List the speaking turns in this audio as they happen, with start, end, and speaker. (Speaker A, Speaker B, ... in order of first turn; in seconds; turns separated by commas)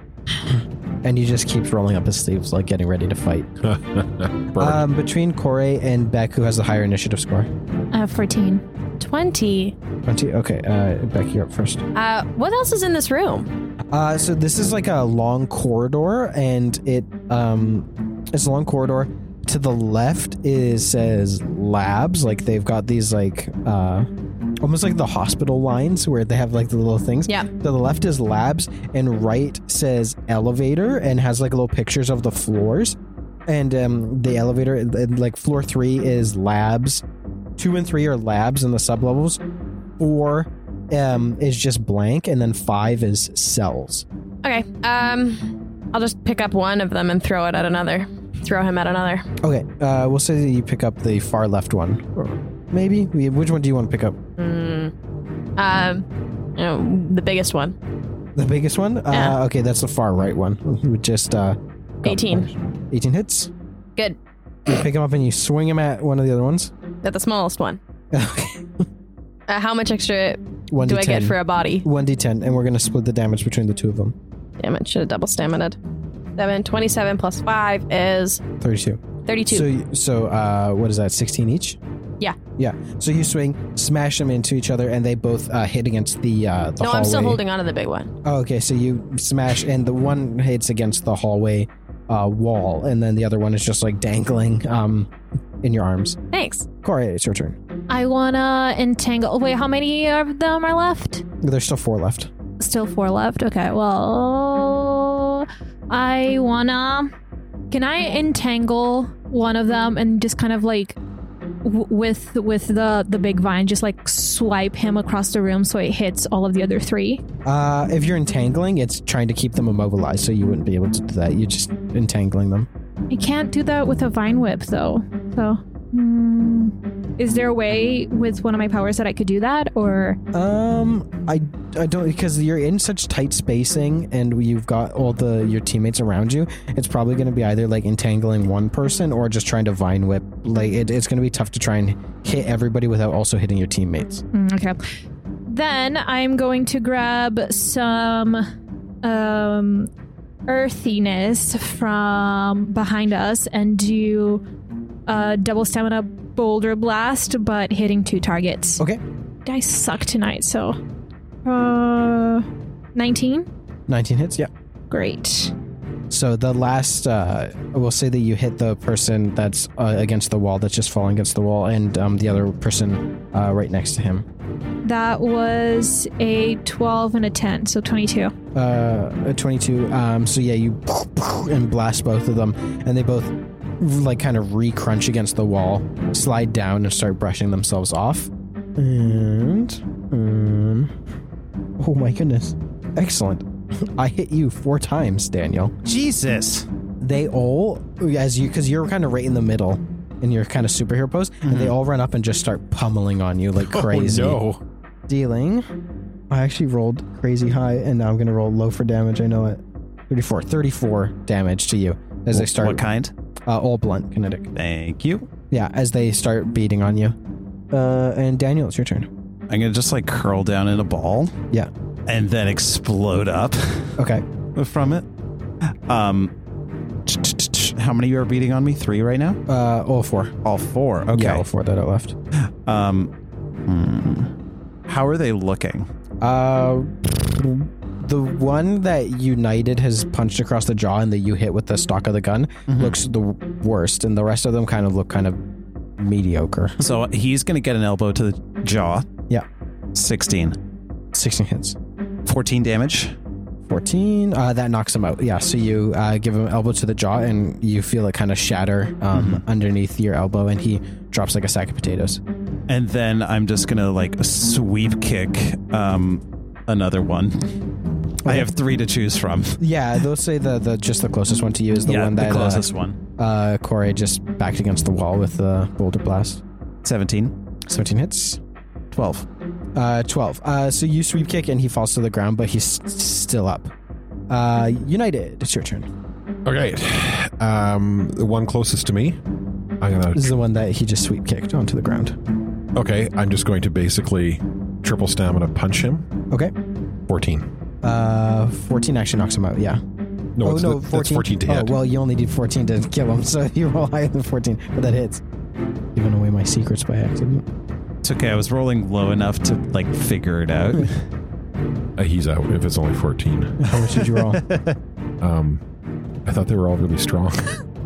Speaker A: 0.3-3.5, Speaker B: 3.6-4.9, Speaker A: 4.6-7.5, Speaker C: 7.9-8.6, Speaker D: 9.0-9.8, Speaker A: 10.1-11.8, Speaker D: 11.9-13.5, Speaker A: 13.9-24.1, Speaker A: 24.6-33.0, Speaker A: 33.5-37.0, Speaker A: 37.6-39.4, Speaker A: 40.0-44.0, Speaker D: 44.4-49.3, Speaker A: 49.4-54.2, Speaker D: 54.4-54.9, Speaker D: 55.6-56.0, Speaker D: 56.6-57.8, Speaker A: 58.4-63.5, Speaker D: 59.1-59.4, Speaker D: 62.0-62.5, Speaker A: 64.7-66.7, Speaker D: 67.0-67.8, Speaker A: 68.1-68.6, Speaker D: 69.5-71.8, Speaker A: 70.7-74.2, Speaker D: 74.6-75.8, Speaker D: 76.4-78.4, Speaker A: 78.6-81.8, Speaker D: 79.3-79.7, Speaker A: 82.6-87.4, Speaker D: 86.8-88.1, Speaker A: 88.2-95.1, Speaker A: 95.6-96.2, Speaker D: 96.3-96.7, Speaker A: 96.8-97.6, Speaker C: 97.9-101.2, Speaker A: 101.4-102.3, Speaker C: 102.6-107.1, Speaker C: 107.7-111.0, Speaker C: 111.6-117.2, Speaker A: 117.5-122.7, Speaker C: 123.1-130.2, Speaker A: 130.3-144.2, Speaker C: 144.3-144.8, Speaker C: 145.5-148.4, Speaker C: 149.0-149.9, Speaker C: 150.5-154.4, Speaker C: 155.1-158.8, Speaker C: 159.5-160.8, Speaker C: 161.4-163.5, Speaker A: 163.9-164.5, Speaker C: 164.9-165.5, Speaker A: 166.1-174.2, Speaker C: 174.8-178.3, Speaker A: 178.6-190.9, Speaker A: 191.8-195.7, Speaker E: 195.8-196.7, Speaker A: 197.0-204.4, Speaker E: 201.4-201.7, Speaker B: 203.6-204.6, Speaker A: 205.1-205.7, Speaker A: 206.3-212.8, Speaker E: 212.3-213.1, Speaker A: 213.5-214.5, Speaker E: 214.6-215.3, Speaker A: 215.5-217.2, Speaker A: 217.7-219.1, Speaker E: 219.5-221.3, Speaker E: 222.1-223.9, Speaker A: 224.0-224.2, Speaker E: 224.6-225.1, Speaker E: 225.9-226.3, Speaker E: 227.1-229.4, Speaker A: 229.5-230.3, Speaker E: 230.4-231.4, Speaker A: 231.1-232.2, Speaker E: 232.7-233.1, Speaker E: 233.7-234.3, Speaker E: 234.9-235.9, Speaker A: 236.2-245.4, Speaker E: 242.7-243.0, Speaker A: 246.0-246.8, Speaker E: 246.8-249.1, Speaker E: 249.9-250.6, Speaker A: 251.1-251.8, Speaker E: 252.3-253.2, Speaker A: 253.7-262.2, Speaker E: 259.1-259.4, Speaker E: 262.7-267.5, Speaker A: 268.2-268.5, Speaker E: 268.3-269.6, Speaker A: 269.6-276.4, Speaker E: 271.8-273.0, Speaker E: 276.8-277.3, Speaker A: 277.7-278.4, Speaker E: 278.9-279.3, Speaker A: 279.8-283.7, Speaker A: 284.3-285.9, Speaker B: 286.4-289.2, Speaker B: 289.8-290.3, Speaker A: 290.1-292.2, Speaker B: 292.8-296.1, Speaker B: 297.1-297.5, Speaker A: 297.8-299.8, Speaker B: 300.4-301.7, Speaker A: 300.4-305.2, Speaker A: 306.0-307.4, Speaker E: 308.0-311.0, Speaker B: 312.0-313.7, Speaker A: 313.6-314.4, Speaker E: 313.8-314.8, Speaker B: 315.2-315.6, Speaker B: 316.2-317.6